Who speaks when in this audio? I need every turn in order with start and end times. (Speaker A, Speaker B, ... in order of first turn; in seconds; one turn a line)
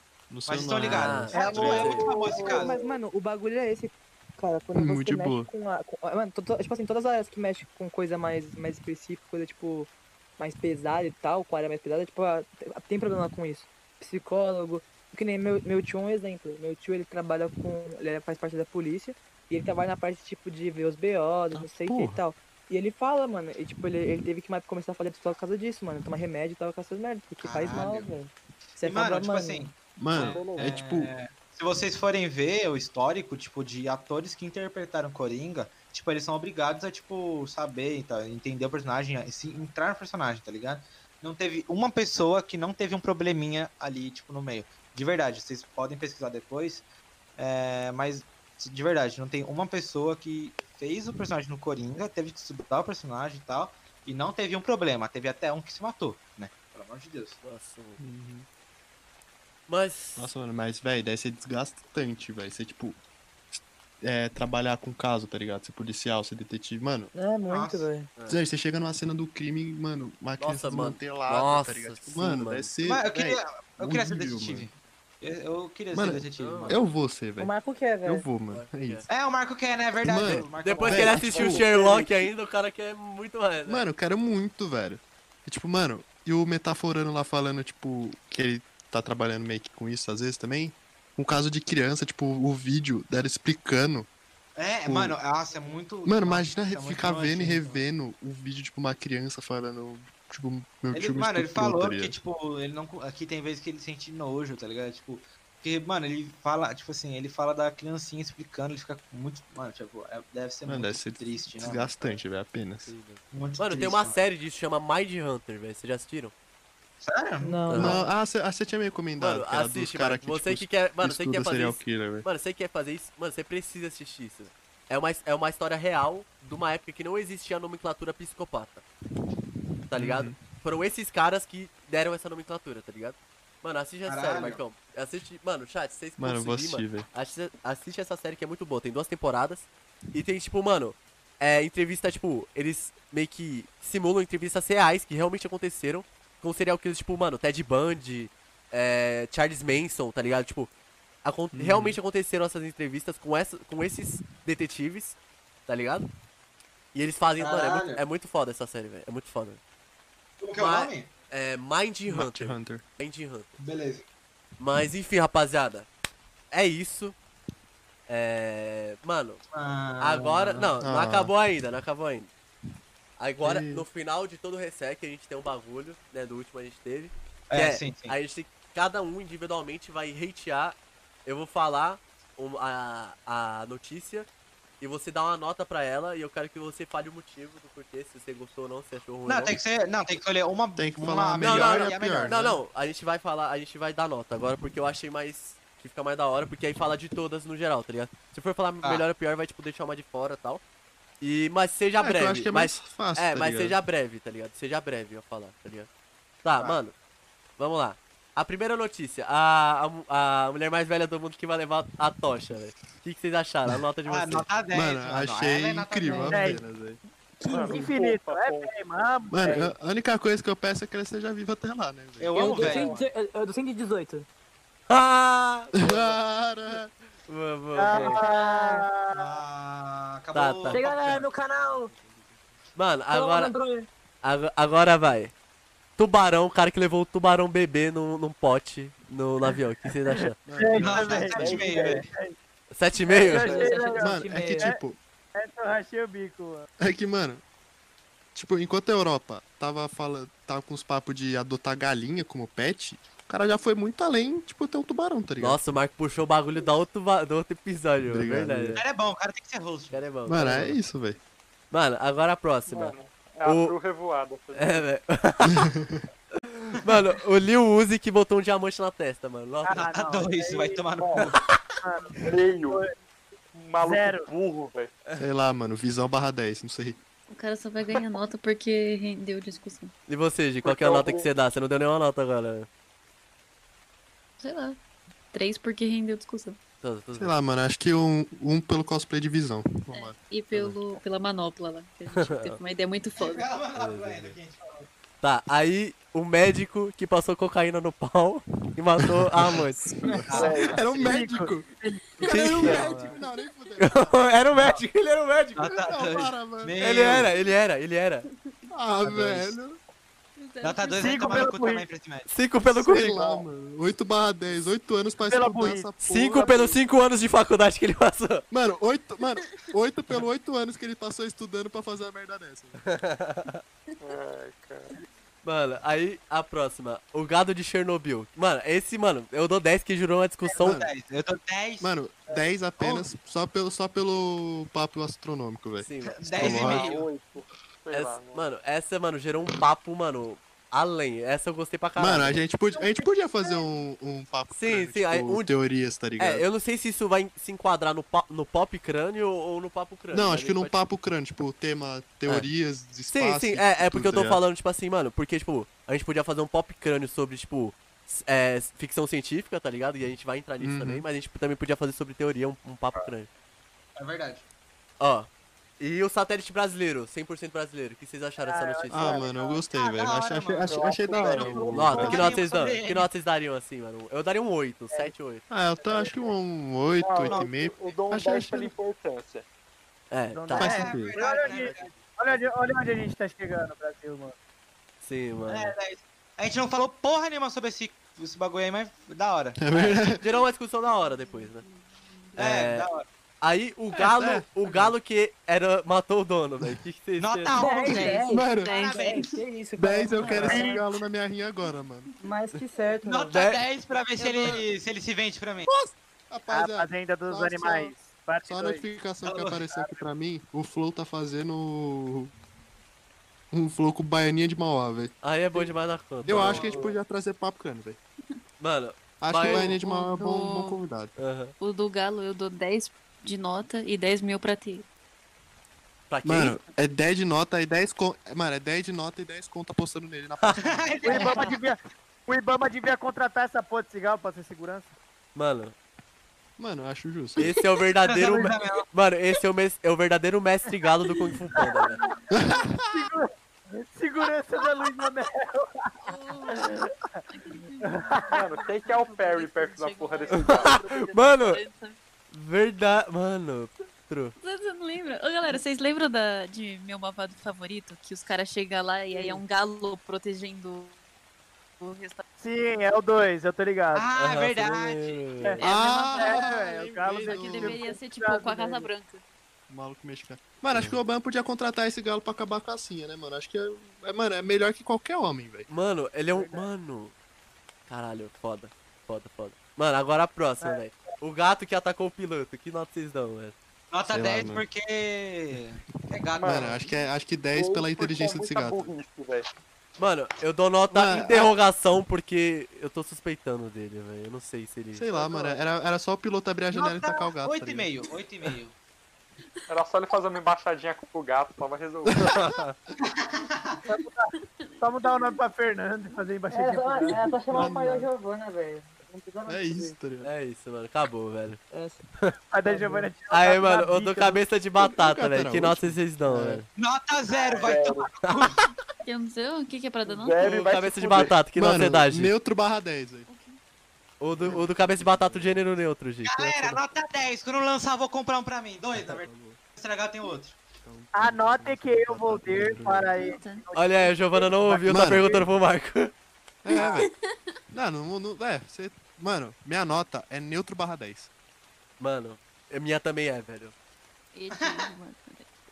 Speaker A: 0.3-2.1
Speaker B: 0.5-2.8
Speaker C: 0.8-2.0
Speaker D: 1.6-2.8
Speaker E: 1.7-29.7
Speaker A: 4.7-5.5
Speaker A: 21.5-22.2
Speaker B: 27.4-28.1
Speaker B: 28.8-57.4
Speaker A: 30.0-31.1
Speaker F: 30.1-30.8
Speaker C: 57.4-58.0
Speaker A: 58.0-58.5
Speaker C: 59.7-60.3
Speaker A: 60.1-63.0
Speaker A: 63.5-67.1
Speaker E: 67.1-68.1
Speaker B: 67.5-67.9
Speaker A: 68.3-74.7
Speaker C: 70.4-72.7
Speaker B: 72.8-76.8
Speaker A: 75.9-77.5
Speaker C: 76.4-76.8
Speaker E: 77.4-78.3
Speaker A: 78.0-79.0
Speaker C: 78.5-79.0
Speaker B: 79.1-81.6
Speaker A: 80.0-81.6
Speaker C: 80.2-83.8
Speaker E: 81.6-82.1
Speaker A: 83.7-94.1
Speaker B: 94.5-97.8
Speaker A: 94.8-95.2
Speaker A: 96.0-102.2
Speaker B: 100.9-112.2
Speaker A: 110.7-112.9
Speaker C: 112.8-116.3
Speaker B: 113.3-114.2
Speaker B: 117.0-118.0
Speaker E: 117.4-117.9
Speaker C: 117.7-118.0
Speaker A: 117.7-122.2
Speaker C: 119.2-128.8
Speaker C: 129.9-150.7
Speaker A: 129.9-130.4
Speaker B: 134.1-134.6
Speaker A: 136.2-137.1
Speaker C: 151.2-155.2
Speaker A: 151.5-152.0
Speaker C: 155.7-156.0
Speaker C: 156.9-159.6
Speaker B: 157.4-158.0
Speaker B: 160.4-161.1
Speaker C: 160.6-163.6
Speaker A: 162.1-162.8
Speaker B: 163.6-164.1
Speaker C: 164.6-165.9
Speaker C: 166.5-167.1
Speaker C: 168.1-169.4
Speaker B: 169.5-170.7
Speaker C: 170.0-172.3
Speaker A: 170.8-171.3
Speaker C: 173.2-184.3
Speaker A: 173.4-173.8
Speaker B: 177.5-178.1
Speaker C: 184.8-189.6
Speaker B: 189.3-192.5
Speaker A: 190.8-192.6
Speaker C: 191.4-200.6
Speaker C: 201.2-205.9
Speaker A: 202.0-203.8
Speaker C: 206.4-206.9
Speaker C: 207.6-214.5
Speaker B: 214.1-216.5
Speaker A: 214.7-217.0
Speaker D: 216.1-216.6
Speaker E: 217.4-217.9
Speaker D: 217.5-219.5
Speaker F: 217.5-218.7
Speaker A: 219.3-222.9
Speaker E: 219.4-219.7
Speaker B: 222.2-223.1
Speaker E: 222.3-224.3
Speaker C: 224.9-226.2
Speaker A: 225.8-226.9
Speaker C: 227.3-228.2
Speaker D: 227.8-229.4
Speaker E: 227.9-228.8
Speaker B: 229.1-231.0
Speaker C: 230.3-231.3
Speaker E: 230.7-231.9
Speaker A: 231.5-232.4
Speaker C: 232.7-233.5
Speaker E: 233.1-233.9
Speaker C: 234.2-235.3
Speaker C: 236.0-240.4
Speaker A: 240.4-241.6
Speaker D: 240.5-242.3
Speaker B: 240.7-242.1
Speaker F: 241.3-242.0
Speaker C: 242.7-243.6
Speaker D: 243.1-244.8
Speaker F: 243.3-243.8
Speaker E: 243.3-244.8
Speaker A: 244.0-245.0
Speaker D: 245.3-246.7
Speaker A: 246.8-247.4
Speaker A: 248.3-255.6
Speaker C: 255.4-258.8
Speaker A: 258.1-258.8
Speaker B: 258.8-260.1
Speaker C: 259.9-260.8
Speaker A: 260.3-261.2
Speaker C: 261.7-263.8
Speaker F: 262.7-264.9
Speaker C: 264.5-265.7
Speaker A: 265.7-266.0
Speaker C: 266.4-269.9
Speaker D: 269.6-270.8
Speaker B: 269.8-271.3
Speaker F: 271.0-271.3
Speaker D: 271.8-272.9
Speaker F: 272.2-272.9
Speaker F: 273.5-274.9
Speaker D: 273.8-274.3
Speaker A: 275.2-277.0
Speaker G: 277.3-279.9
Speaker C: 280.1-282.7
Speaker F: 280.6-281.3
Speaker G: 284.4-284.8
Speaker G: 285.3-286.6
Speaker C: 286.8-287.4
Speaker A: 287.1-290.8
Speaker G: 289.9-293.5
Speaker C: 292.1-292.6
Speaker B: 293.1-294.9
Speaker C: 293.8-294.3
Speaker C: 295.2-299.9
Speaker A: 299.2-301.7
Speaker D: 300.0-303.2
Speaker B: 300.3-300.8
Speaker F: 300.3-300.8
Speaker A: 302.2-304.7
Speaker C: 302.2-302.9
Speaker C: 303.8-305.7
Speaker B: 305.6-307.3
Speaker A: 305.7-307.2
Speaker C: 306.8-308.2
Speaker A: 308.7-309.8
Speaker C: 309.0-309.6
Speaker G: 310.4-311.4
Speaker B: 310.6-312.3
Speaker D: 311.0-311.9
Speaker C: 312.3-313.4
Speaker A: 312.8-316.8
Speaker D: 315.3-316.6
Speaker C: 316.0-318.4
Speaker A: 318.5-322.9
Speaker C: 322.9-323.6
Speaker F: 324.0-324.9
Speaker C: 325.4-330.8
Speaker B: 330.4-333.1
Speaker A: 330.6-330.9
Speaker A: 331.8-336.9
Speaker C: 335.8-336.6
Speaker B: 336.2-337.1
Speaker F: 336.4-338.5
Speaker C: 337.9-342.4
Speaker A: 342.0-346.4
Speaker C: 344.5-345.5
Speaker C: 346.2-350.8
Speaker A: 350.1-354.4
Speaker C: 353.1-363.3
Speaker A: 360.6-361.0
Speaker B: 363.9-364.5
Speaker C: 365.0-365.3
Speaker C: 365.8-369.3
Speaker D: 368.4-369.6
Speaker A: 368.9-372.4
Speaker B: 369.7-373.1
Speaker F: 370.7-372.3
Speaker C: 371.7-375.4
Speaker A: 375.5-378.7
Speaker D: 375.8-376.3
Speaker F: 377.0-379.4
Speaker B: 377.2-377.5
Speaker C: 380.1-381.9
Speaker D: 380.3-384.4
Speaker A: 380.6-381.2
Speaker B: 380.6-382.0
Speaker C: 385.0-385.7
Speaker B: 385.5-390.0
Speaker A: 389.6-390.2
Speaker C: 390.2-391.6
Speaker G: 390.8-392.5
Speaker C: 392.4-392.9
Speaker B: 392.4-393.1
Speaker C: 393.4-397.7
Speaker A: 393.9-394.9
Speaker B: 397.2-399.3
Speaker E: 397.5-400.8
Speaker G: 397.8-399.4
Speaker A: 398.3-398.7
Speaker A: 399.8-402.1
Speaker G: 400.1-400.7
Speaker D: 400.5-400.7
Speaker E: 402.2-403.4
Speaker B: 403.1-405.7
Speaker C: 403.3-403.6
Speaker G: 404.2-404.6
Speaker A: 405.6-412.3
Speaker D: 406.5-408.9
Speaker B: 409.2-409.6
Speaker A: 413.5-415.1
Speaker C: 415.2-416.8
Speaker A: 416.2-418.0
Speaker D: 416.6-416.9
Speaker C: 418.6-419.8
Speaker A: 419.2-421.1
Speaker G: 419.4-420.8
Speaker C: 421.2-421.5
Speaker G: 421.6-424.9
Speaker C: 426.1-426.6
Speaker A: 426.2-431.4
Speaker B: 430.6-431.6
Speaker D: 431.0-434.9
Speaker C: 435.3-435.7
Speaker A: 436.6-437.5
Speaker C: 437.4-442.0
Speaker B: 438.0-438.9
Speaker D: 441.5-442.1
Speaker A: 442.3-443.0
Speaker D: 442.9-446.9
Speaker G: 446.0-452.0
Speaker D: 447.8-448.4
Speaker F: 448.3-450.8
Speaker C: 450.3-451.6
Speaker C: 452.3-454.3
Speaker G: 454.4-461.0
Speaker D: 459.1-459.4
Speaker G: 461.8-462.2
Speaker D: 462.4-464.1
Speaker B: 463.9-465.3
Speaker C: 464.1-465.6
Speaker G: 465.6-466.6
Speaker A: 465.6-467.8
Speaker D: 466.1-468.9
Speaker G: 467.2-469.2
Speaker A: 469.7-475.7
Speaker C: 470.7-471.0
Speaker C: 475.7-477.1
Speaker D: 476.3-476.7
Speaker C: 477.9-483.5
Speaker D: 480.6-481.1
Speaker B: 483.9-486.8
Speaker A: 484.1-484.6
Speaker F: 486.4-486.9
Speaker A: 486.4-488.9
Speaker F: 487.5-489.5
Speaker C: 490.0-495.1
Speaker A: 490.9-491.5
Speaker A: 494.9-497.9
Speaker B: 496.7-498.8
Speaker F: 499.7-502.4
Speaker C: 502.2-502.7
Speaker B: 503.0-503.8
Speaker D: 503.9-507.9
Speaker E: 506.5-510.0
Speaker A: 507.5-508.1
Speaker A: 509.4-510.3
Speaker C: 510.2-511.6
Speaker E: 511.7-512.0
Speaker D: 512.5-514.4
Speaker E: 512.6-513.1
Speaker C: 513.3-516.7
Speaker A: 514.8-516.6
Speaker B: 516.8-518.6
Speaker F: 517.4-518.1
Speaker C: 518.2-518.7
Speaker G: 519.0-520.5
Speaker F: 520.1-521.4
Speaker C: 520.4-522.3
Speaker A: 521.5-523.3
Speaker G: 523.3-523.6
Speaker C: 524.2-526.8
Speaker A: 524.4-525.9
Speaker B: 526.2-530.6
Speaker A: 529.0-529.6
Speaker A: 530.8-533.2
Speaker D: 531.1-535.5
Speaker G: 533.1-533.7
Speaker C: 533.8-536.1
Speaker A: 534.7-535.4
Speaker A: 536.6-537.1
Speaker G: 537.0-537.2
Speaker A: 537.7-541.3
Speaker C: 542.0-543.7
Speaker G: 544.3-545.5
Speaker B: 544.5-544.9